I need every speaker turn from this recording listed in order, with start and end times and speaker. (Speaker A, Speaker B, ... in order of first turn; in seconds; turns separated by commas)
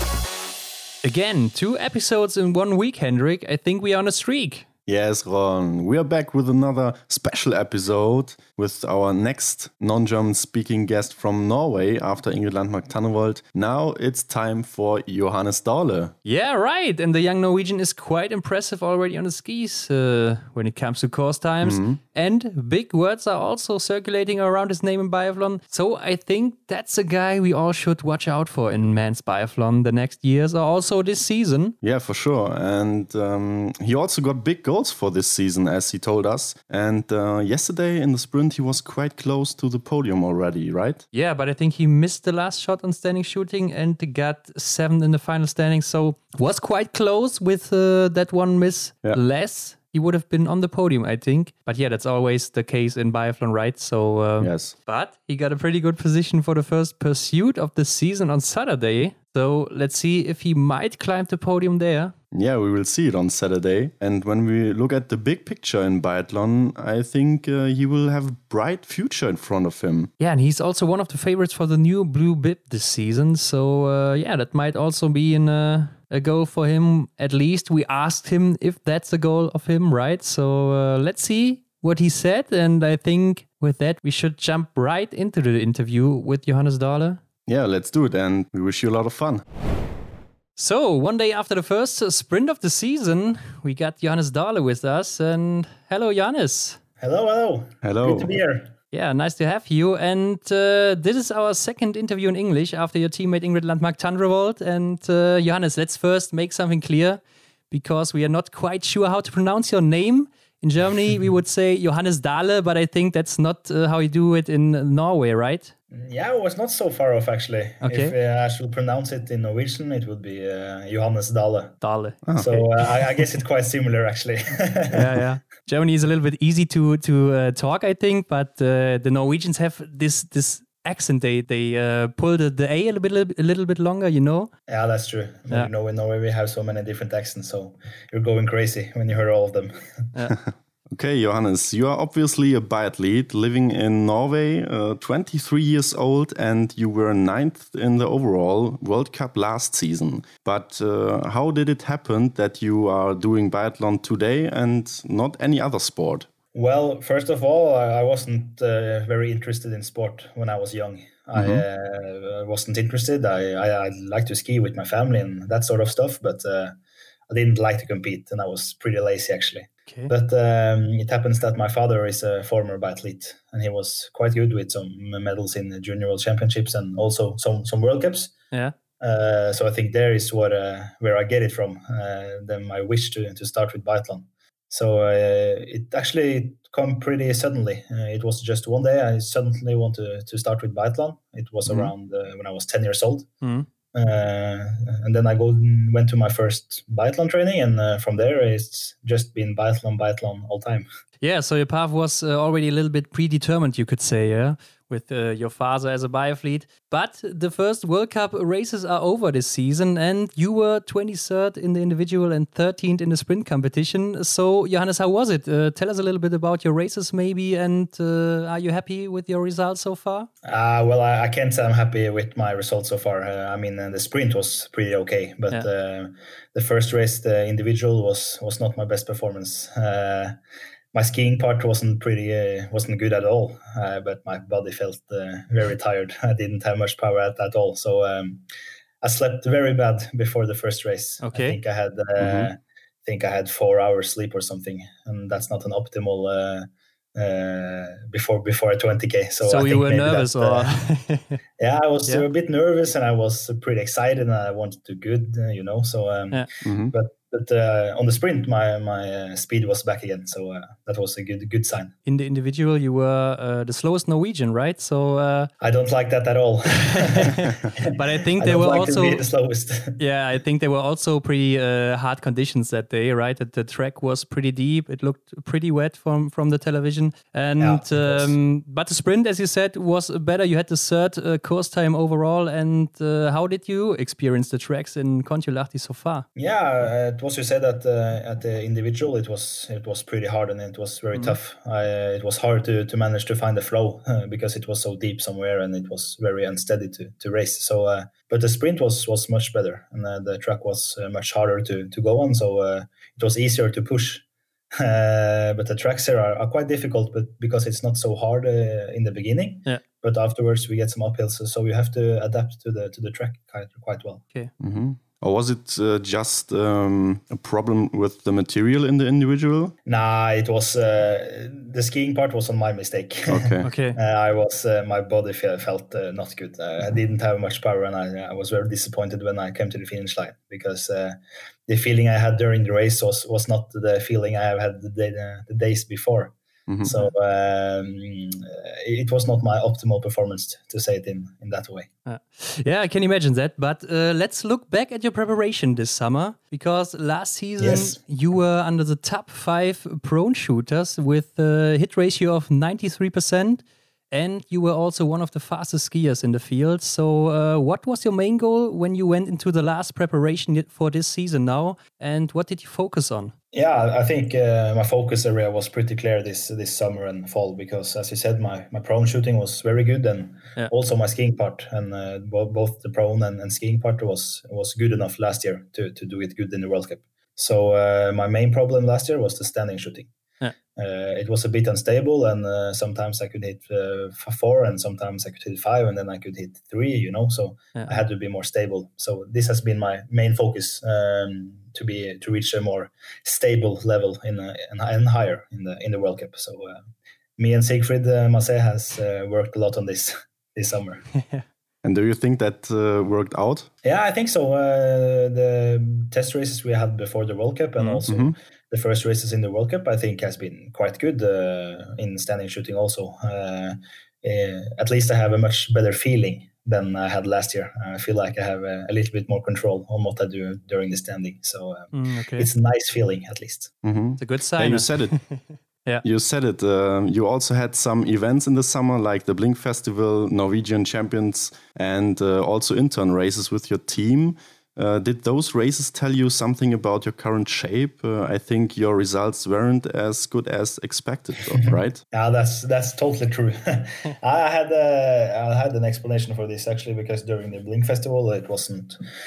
Speaker A: 1.0-4.7, Speaker B: 4.9-16.1, Speaker A: 16.2-31.7, Speaker B: 21.6-22.0, Speaker B: 31.8-41.0, Speaker A: 41.1-62.1, Speaker B: 54.4-54.7, Speaker B: 62.3-70.1, Speaker A: 70.2-87.2, Speaker B: 87.5-89.4, Speaker A: 90.5-96.8, Speaker C: 97.0-98.8, Speaker B: 97.8-98.4, Speaker A: 98.9-115.7, Speaker C: 115.9-121.8, Speaker A: 117.8-118.1, Speaker A: 121.8-122.7, Speaker C: 122.3-125.2, Speaker A: 124.9-134.5, Speaker C: 134.7-140.1, Speaker B: 140.3-156.3, Speaker C: 156.5-166.8, Speaker B: 161.3-161.6, Speaker C: 167.3-178.3, Speaker C: 179.0-193.3, Speaker B: 191.7-191.9, Speaker A: 193.4-193.7, Speaker C: 193.9-200.9, Speaker A: 201.2-220.3, Speaker C: 220.4-230.3, Speaker C: 230.9-238.4, Speaker C: 239.0-250.7, Speaker A: 241.2-241.6, Speaker B: 242.2-242.5, Speaker A: 249.4-251.4, Speaker C: 251.6-261.9, Speaker B: 256.6-256.9, Speaker A: 262.1-265.5, Speaker C: 265.6-270.0, Speaker A: 266.8-269.2, Speaker A: 270.0-286.2, Speaker C: 277.6-278.3, Speaker C: 286.4-314.2, Speaker B: 314.6-319.7, Speaker C: 319.9-331.1, Speaker B: 323.3-323.7, Speaker A: 323.6-324.0, Speaker C: 331.7-341.9, Speaker B: 336.7-336.9, Speaker A: 342.1-363.3, Speaker C: 347.6-348.0, Speaker C: 363.5-380.1, Speaker C: 380.8-396.8, Speaker C: 397.4-401.0, Speaker A: 401.1-401.4, Speaker B: 401.8-403.7, Speaker C: 403.8-423.7, Speaker B: 408.1-408.3, Speaker A: 421.9-422.5, Speaker B: 423.8-425.3, Speaker A: 424.2-426.0, Speaker B: 426.0-442.0, Speaker C: 442.1-449.0